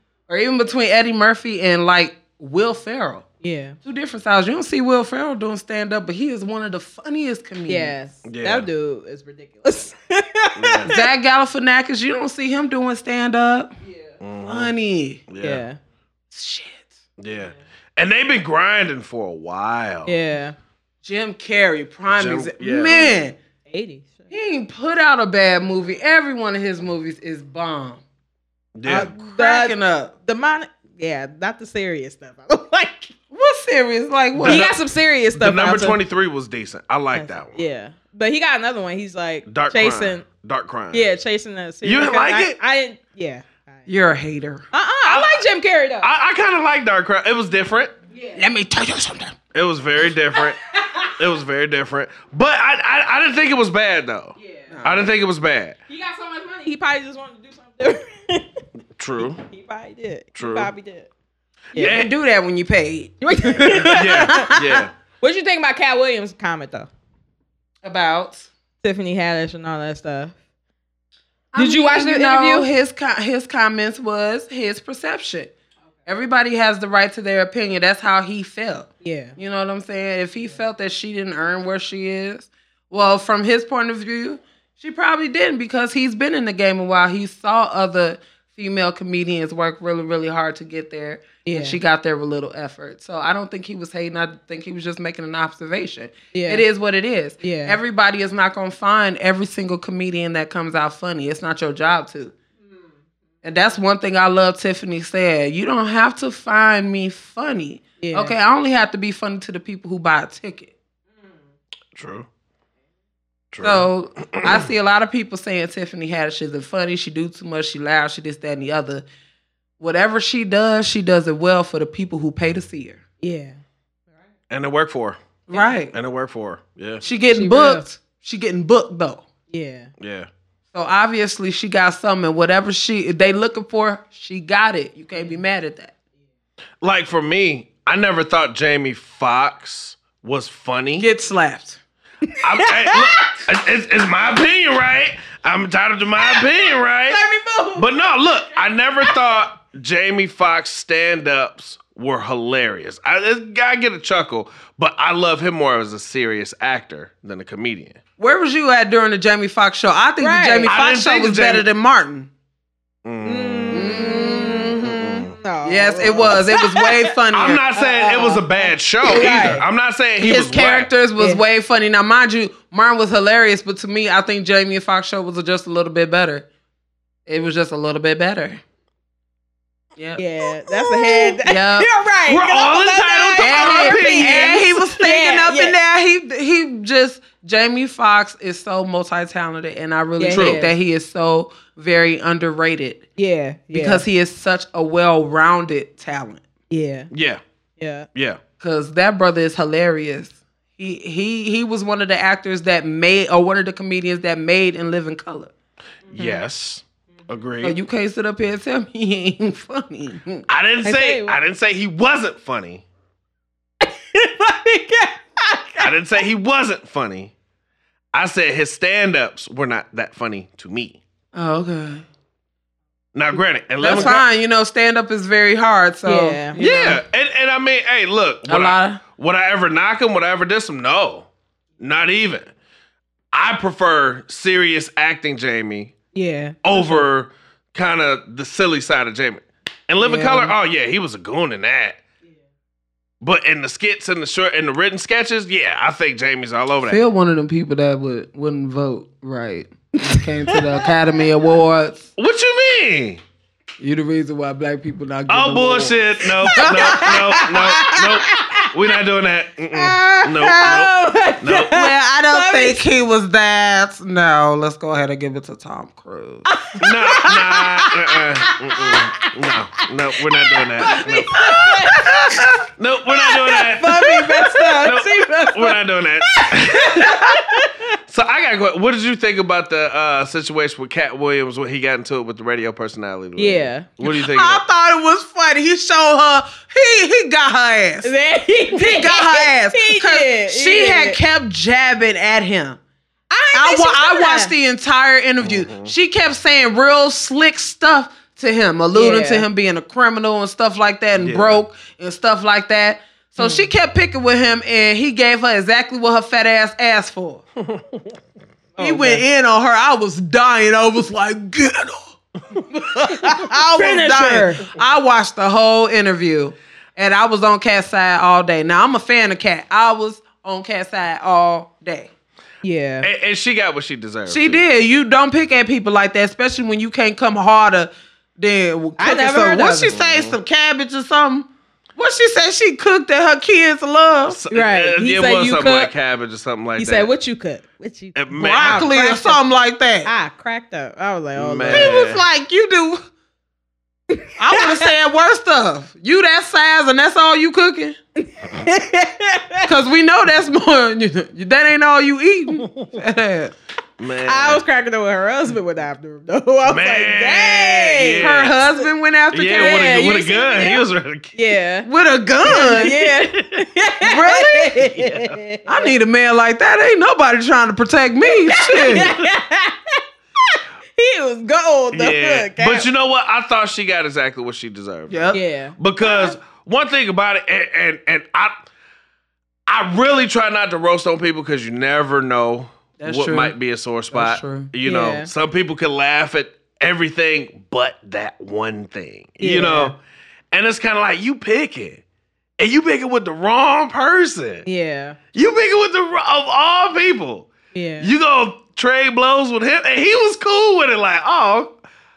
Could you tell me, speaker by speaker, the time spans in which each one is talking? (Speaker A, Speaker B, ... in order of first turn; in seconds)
Speaker A: 0.3-3.2, 3.8-8.0, 10.9-13.7, 14.5-15.3, 16.3-16.9, 21.0-23.4, 24.3-28.0, 29.2-30.1, 33.3-34.7, 43.9-44.6, 48.4-49.4, 54.7-55.0, 61.8-64.8, 67.8-68.5, 71.5-75.5, 76.1-102.3, 103.4-110.7, 113.6-119.0, 119.8-123.0, 125.5-125.9, 127.0-129.2, 130.7-135.9, 141.0-141.8, 158.2-162.3, 163.7-167.7, 170.2-176.5, 177.3-178.6, 180.0-181.9, 183.4-193.0, 193.7-196.4, 198.6-205.5, 207.6-210.4, 221.3-222.1, 223.8-227.0, 228.5-229.0, 240.0-240.5, 246.8-252.1, 253.8-257.6, 260.3-260.7, 261.7-266.5, 270.9-271.1, 271.9-272.6, 284.0-288.1, 288.7-292.8, 293.5-307.4, 308.8-322.1, 324.3-334.4, 338.3-340.1, 341.7-343.0, 344.4-348.0, 349.6-353.5, 358.2-360.1, 361.9-363.1, 364.0-364.9, 365.7-369.1, 375.1-375.4, 383.0-383.6, 384.1-384.7
Speaker B: 3.4-3.8, 7.7-11.0, 13.9-14.1, 15.4-15.8, 20.1-20.6, 23.7-24.3, 28.9-33.1, 34.4-36.0, 37.1-40.2, 40.9-43.8, 44.7-46.1, 48.1-48.4, 50.3-51.1, 54.4-54.7, 55.9-58.6, 59.4-61.1, 61.7-62.0, 63.2-64.6, 65.2-66.9, 68.8-70.3, 71.6-72.7, 79.0-79.3, 91.5-91.8, 96.3-96.6, 97.4-97.8, 108.0-108.3, 123.2-123.6, 127.1-127.8, 129.5-129.9, 142.6-143.4, 146.2-146.5, 147.1-147.9, 160.2-160.7, 163.2-167.1, 167.8-169.6, 180.2-185.8, 190.2-190.7, 193.2-194.1, 196.7-197.1, 197.8-198.1, 206.1-206.4, 210.8-211.4, 213.8-215.9, 226.1-226.6, 236.1-237.1, 250.1-250.7, 256.6-258.6, 260.0-262.8, 266.5-267.9, 268.5-269.3, 270.6-272.2, 273.2-277.7, 283.4-283.9, 288.0-291.2, 293.3-294.5, 298.9-299.5, 303.4-303.7, 308.8-309.2, 313.3-314.7, 322.6-323.1, 329.0-329.9, 334.5-335.9, 336.8-339.4, 340.1-342.0, 344.1-344.9, 348.2-349.7, 354.2-358.5, 359.5-361.9, 362.4-365.9, 368.3-372.9, 375.3-375.8, 384.8-385.3, 389.4-389.9, 394.6-395.2, 397.7-398.1
Speaker C: 8.2-8.7, 10.6-10.9, 14.2-14.7, 15.3-15.6, 17.2-20.1, 22.1-23.1, 28.8-29.1, 34.4-34.8, 35.4-37.6, 39.5-41.1, 41.8-42.6, 45.0-45.4, 46.0-48.0, 49.5-55.8, 59.0-59.4, 60.4-60.7, 61.8-62.1, 63.8-64.9, 112.0-112.3, 113.5-114.6, 124.5-125.2, 125.9-127.0, 130.0-130.3, 136.8-141.1, 142.4-147.2, 147.8-158.0, 160.7-161.7, 163.1-163.9, 164.8-165.4, 166.1-166.4, 167.3-170.9, 182.3-184.6, 190.3-190.6, 197.1-197.4, 206.1-207.8, 210.5-212.8, 215.8-217.3, 218.1-221.0, 223.2-224.2, 226.6-231.3, 231.8-232.5, 233.3-235.9, 236.6-242.0, 243.2-247.0, 252.2-253.2, 255.3-261.8, 266.8-271.6, 272.8-284.6, 295.4-295.9, 301.2-301.6, 307.6-308.1, 323.0-324.6, 329.9-330.4, 334.3-337.1, 338.1-338.9, 341.4-342.2, 354.0-354.6, 356.7-358.6, 359.3-361.3, 363.3-363.7, 364.9-365.4, 371.9-378.7, 379.7-390.0, 390.5-392.0, 392.6-394.6, 395.3-401.7